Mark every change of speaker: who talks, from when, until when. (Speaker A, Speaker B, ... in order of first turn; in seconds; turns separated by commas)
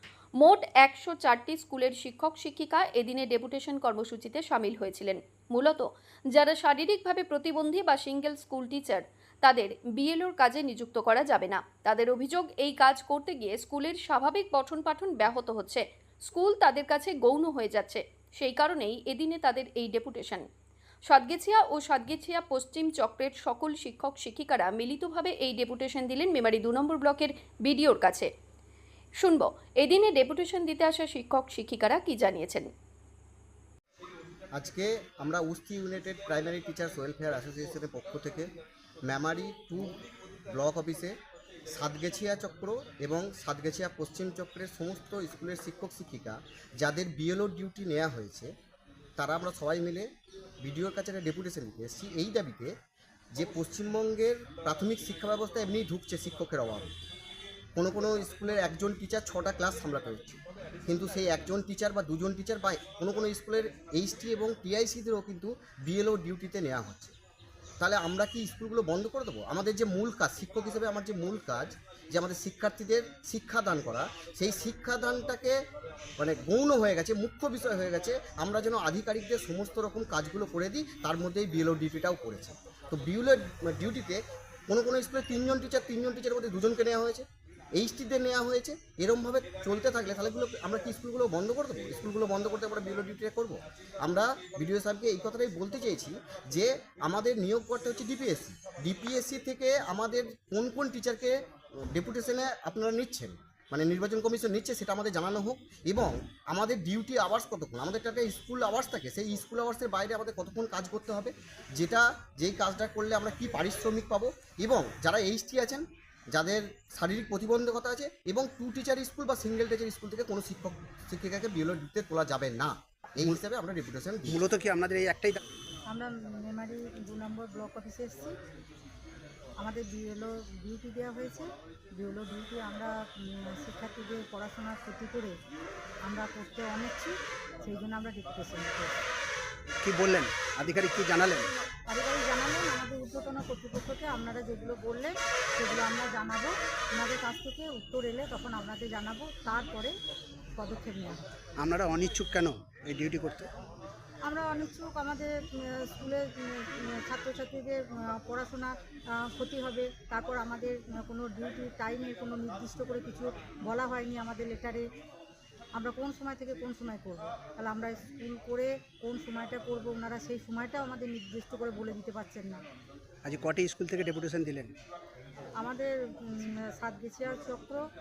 Speaker A: 0.4-20.5, Speaker A: 21.1-28.3, Speaker A: 29.2-32.7, Speaker B: 34.6-38.5, Speaker B: 39.1-39.9, Speaker B: 40.5-41.1, Speaker B: 41.7-48.5, Speaker B: 49.2-50.1, Speaker B: 50.6-52.7, Speaker B: 53.4-56.9, Speaker B: 57.8-67.1, Speaker B: 67.8-75.6, Speaker B: 76.2-87.2, Speaker B: 87.8-124.4, Speaker C: 124.3-125.4, Speaker D: 125.9-128.4, Speaker D: 129.6-135.4, Speaker D: 136.1-138.9, Speaker C: 139.8-141.5, Speaker D: 141.9-149.9, Speaker D: 150.6-151.2, Speaker C: 151.6-153.5, Speaker D: 154.3-164.8, Speaker D: 165.8-172.6, Speaker C: 173.2-174.7, Speaker D: 175.6-177.8